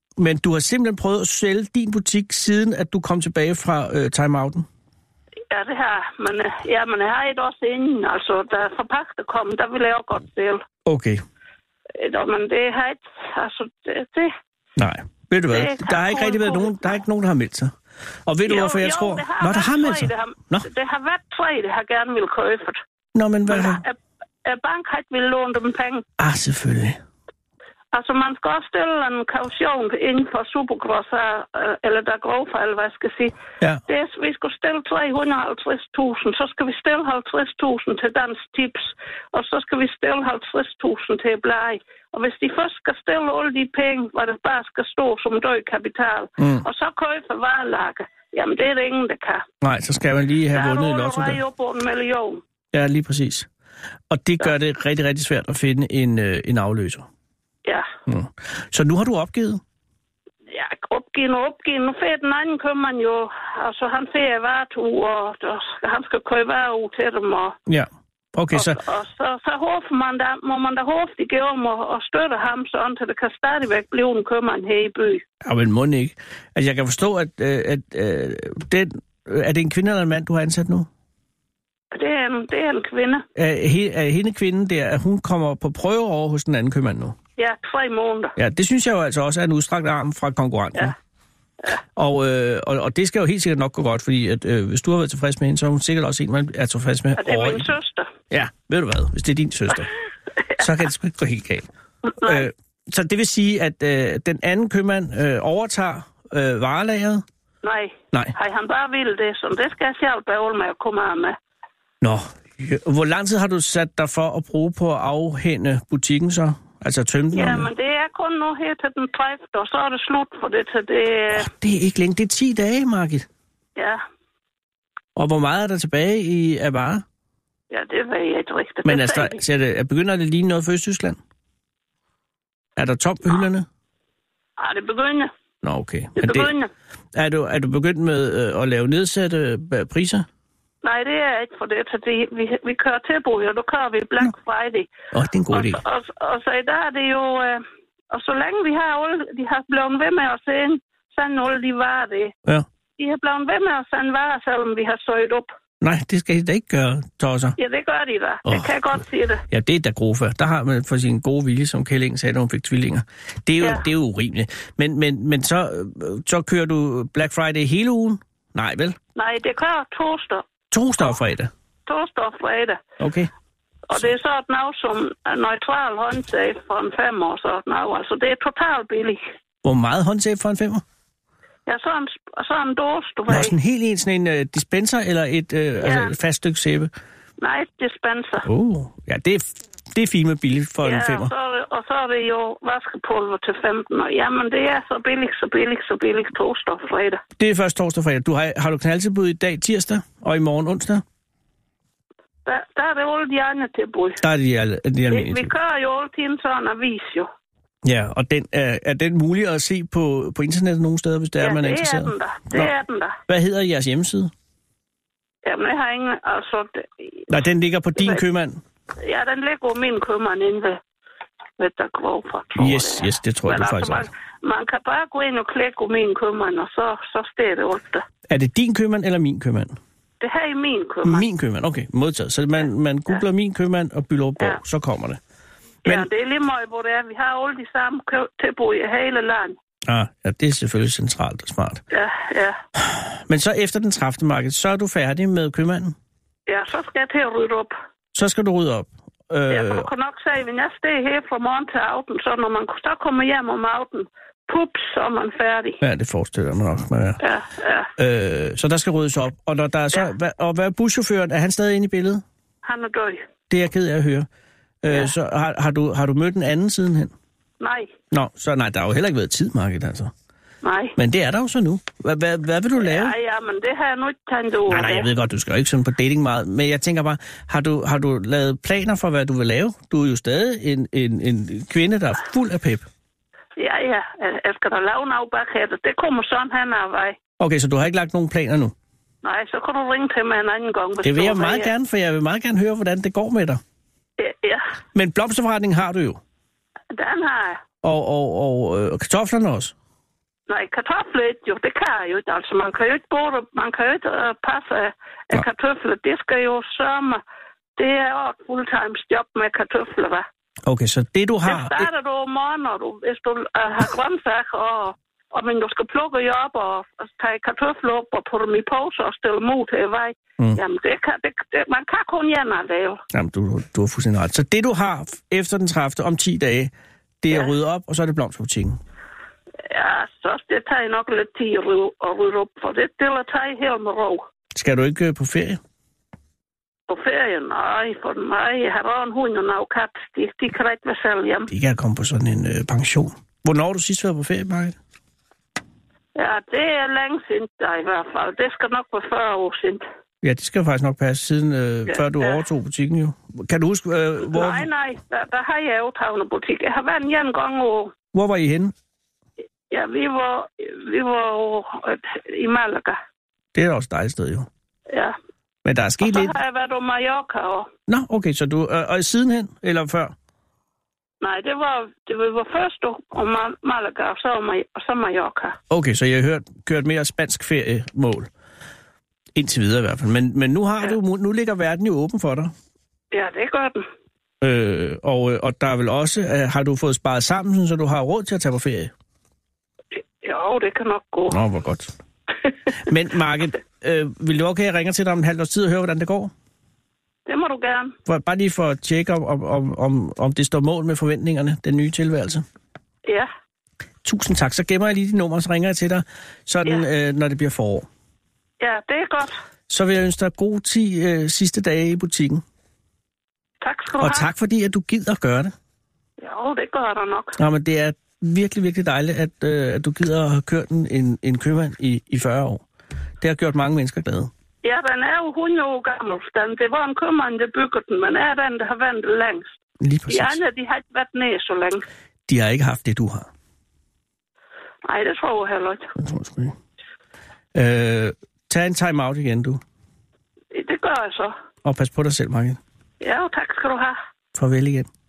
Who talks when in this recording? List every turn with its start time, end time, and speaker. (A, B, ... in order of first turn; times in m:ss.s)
0:00.2-0:04.6 A
0:05.5-0:10.6 B
0:10.8-0:11.2 A
0:12.0-0:14.3 B
0:14.8-0:17.7 A
0:15.5-0:17.0 B
0:18.2-0:20.7 A
0:18.5-0:22.8 B
0:23.1-0:23.8 A
0:23.5-0:26.0 B
0:26.2-0:27.0 A
0:27.9-0:33.3 B
0:33.9-0:49.4 B
0:46.4-0:46.6 A
0:49.6-0:51.4 A
0:50.5-0:52.4 B
0:52.7-0:53.5 A
0:54.1-0:57.1 A
0:58.1-0:59.6 A
1:00.5-1:07.6 B
1:07.7-1:08.8 A
1:08.5-1:15.2 B
1:15.4-1:20.9 A
1:21.9-1:23.2 B
1:23.4-1:27.2 A
1:27.4-1:28.3 B
1:28.4-1:30.9 A
1:32.0-1:37.7 A
1:37.2-1:38.1 B
1:38.3-1:39.9 A
1:40.6-1:47.2 A
1:42.2-1:42.4 B
1:47.6-1:51.4 B
1:52.0-1:57.7 A
1:57.3-2:01.5 B
2:01.3-2:03.3 A
2:03.8-2:04.0 B
2:05.1-2:07.0 A
2:07.7-2:09.4 B
2:08.8-2:11.2 A
2:12.8-2:13.7 A
2:14.6-2:15.3 B
2:15.6-2:16.5 A
2:16.2-2:16.7 B
2:17.1-2:20.2 A
2:20.8-2:24.9 B
2:25.1-2:25.8 A
2:25.5-2:32.3 B
2:33.0-2:35.5 B
2:35.8-2:37.6 A
2:37.6-2:39.4 B
2:38.4-2:38.9 A
2:39.5-2:49.0 A
2:49.2-2:50.4 B
2:50.7-2:51.5 A
2:51.8-2:52.8 B
2:53.0-2:53.3 A
2:53.9-2:59.2 B
2:59.6-3:00.8 A
3:01.7-3:03.5 B
3:03.3-3:06.9 A
3:05.8-3:06.1 B
3:07.4-3:08.5 B
3:08.4-3:11.3 A
3:10.8-3:17.2 B
3:17.4-3:21.0 A
3:22.4-3:24.2 B
3:24.2-3:25.5 A
3:25.1-3:27.3 B
3:27.8-3:32.7 A
3:31.4-3:33.2 B
3:33.3-3:34.3 A
3:35.4-3:37.3 B
3:37.3-3:38.6 A
3:39.0-3:40.8 B
3:41.6-3:48.0 B
3:42.6-3:44.1 A
3:48.3-3:49.8 A
3:50.2-3:51.2 B
3:51.0-3:55.2 A
3:55.8-3:59.6 B
3:59.9-4:01.8 A
4:01.9-4:02.6 B
4:02.8-4:06.0 A
4:06.5-4:07.7 B
4:08.1-4:09.9 A
4:09.5-4:15.8 B
4:15.8-4:17.2 A
4:17.2-4:17.9 B
4:18.0-4:22.2 A
4:22.6-4:23.2 B
4:23.5-4:24.3 A
4:24.8-4:27.1 A
4:24.9-4:25.1 B
4:27.6-4:27.9 B
4:28.1-4:30.1 A
4:30.6-4:31.0 B
4:31.0-4:33.1 A
4:32.8-4:35.1 B
4:34.7-4:42.8 A
4:43.6-4:47.2 B
4:47.4-4:48.7 A
4:49.2-4:51.7 B
4:51.0-4:53.6 A
4:54.2-4:54.6 B
4:54.9-4:56.2 A
4:56.9-4:57.6 B
4:57.8-4:59.7 A
5:00.5-5:07.2 B
5:07.8-5:10.2 B
5:10.6-5:11.9 A
5:11.4-5:23.0 B
5:23.1-5:28.8 A
5:29.7-5:34.2 B
5:34.5-5:35.6 A
5:36.9-5:41.5 B
5:41.5-5:44.8 A
5:46.2-5:49.8 B
5:50.2-5:54.7 A
5:51.9-5:52.4 B
5:54.3-5:57.9 B
5:58.1-5:58.7 A
5:59.7-6:03.0 B
6:03.5-6:04.5 A
6:04.9-6:05.2 B
6:05.6-6:06.3 A
6:06.0-6:07.7 B
6:07.9-6:10.1 A
6:11.2-6:15.6 B
6:15.7-6:18.3 A
6:19.3-6:22.5 A
6:23.1-6:23.8 B
6:24.4-6:28.9 A
6:30.2-6:31.4 B
6:31.3-6:31.9 A
6:32.7-6:36.3 A
6:37.3-6:38.0 B
6:38.0-6:42.4 A
6:44.0-6:47.9 A
6:48.6-6:49.4 B
6:49.7-6:52.4 A
6:53.6-6:54.3 B
6:54.0-6:55.5 A
6:56.2-6:57.4 B
6:57.4-7:02.6 A
7:03.2-7:04.3 A
7:04.6-7:09.5 B
7:09.8-7:10.4 A
7:10.1-7:11.8 B
7:12.3-7:13.3 A
7:14.8-7:15.9 B
7:16.0-7:16.6 A
7:17.5-7:19.6 A
7:20.5-7:21.4 B
7:21.6-7:22.6 A
7:23.0-7:24.0 B
7:24.3-7:24.9 A